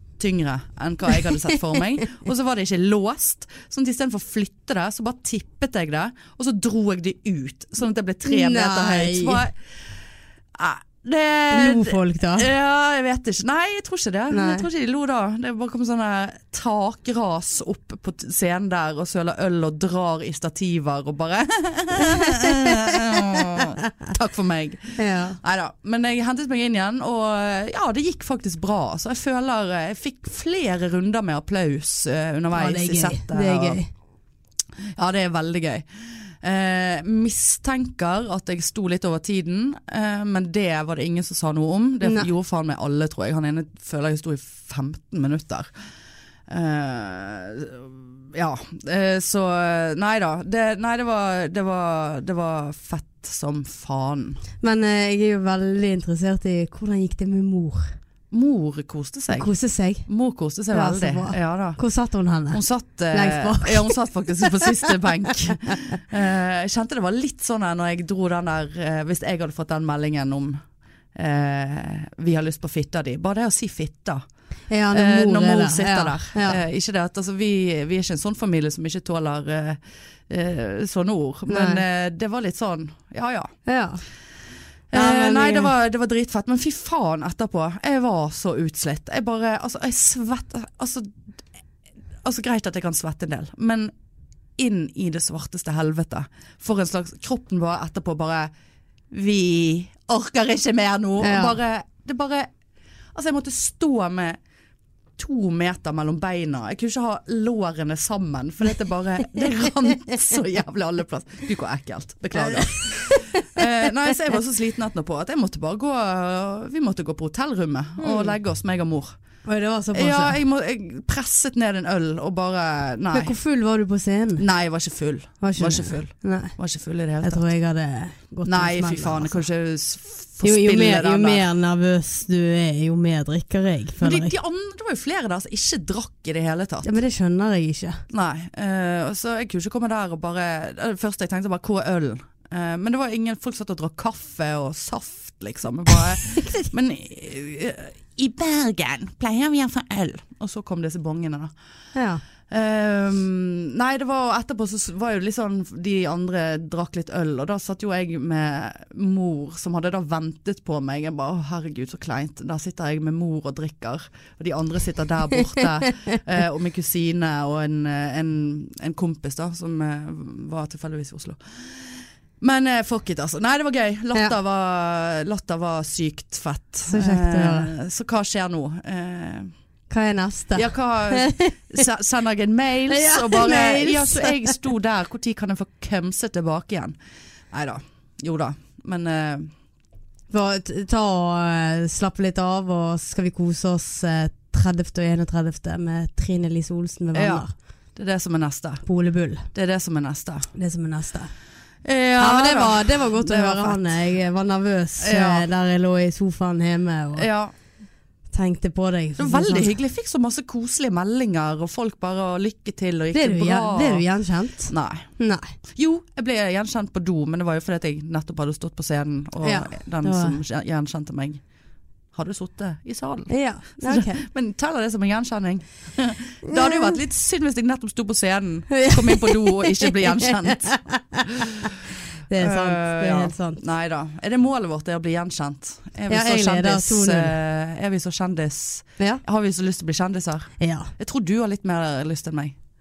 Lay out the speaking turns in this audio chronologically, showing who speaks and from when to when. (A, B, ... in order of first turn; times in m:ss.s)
0:00.2-0:09.6 A
0:08.2-0:09.4 B
0:10.5-0:33.8 A
0:11.5-0:12.5 B
0:14.3-0:14.7 B
0:21.9-0:23.7 B
0:25.0-0:25.4 B
0:32.5-0:33.9 B
0:34.9-0:45.7 A
0:42.0-0:42.3 B
0:46.5-0:54.4 A
0:54.6-0:58.0 B
0:58.3-0:59.5 A
0:59.3-1:00.1 B
1:00.1-1:01.8 A
1:00.7-1:05.7 B
1:02.5-1:10.6 A
1:11.1-1:14.2 A
1:14.7-1:16.6 B
1:14.9-1:23.5 A
1:21.5-1:21.8 B
1:23.6-1:24.0 B
1:24.9-1:31.1 A
1:24.9-1:25.7 B
1:32.2-1:33.9 A
1:34.6-1:38.5 A
1:39.1-1:42.5 A
1:41.2-1:41.6 B
1:43.1-1:44.4 A
1:45.2-1:59.2 A
1:52.4-1:53.6 B
1:58.0-1:58.4 B
1:59.4-2:00.4 B
1:59.9-2:03.3 A
2:03.1-2:04.4 B
2:04.4-2:07.4 A
2:05.4-2:06.5 B
2:07.2-2:09.4 B
2:08.4-2:11.4 A
2:10.4-2:14.3 B
2:14.0-2:16.9 A
2:16.8-2:18.0 B
2:18.1-2:31.5 A
2:26.3-2:26.7 B
2:31.9-2:32.2 B
2:32.5-2:59.5 A
2:56.9-2:57.7 B
2:59.9-3:01.8 B
3:00.5-3:06.9 A
3:02.9-3:04.6 B
3:07.5-3:09.5 A
3:10.3-3:17.5 B
3:17.1-3:17.4 A
3:18.0-3:18.8 A
3:18.8-3:19.5 B
3:19.5-3:20.5 A
3:20.5-3:21.3 B
3:21.8-3:23.9 A
3:22.2-3:27.3 B
3:25.0-3:25.5 A
3:27.2-3:27.5 A
3:28.3-3:29.7 B
3:29.2-3:34.0 A
3:33.1-3:35.5 B
3:34.7-3:35.1 A
3:35.7-3:41.4 A
3:39.4-3:40.4 B
3:42.1-3:43.3 A
3:43.3-3:44.2 B
3:43.8-3:50.8 A
3:46.4-3:46.9 B
3:48.7-3:51.7 B
3:52.3-3:53.6 B
3:52.4-4:02.6 A
3:56.1-3:57.3 B
4:00.6-4:00.9 B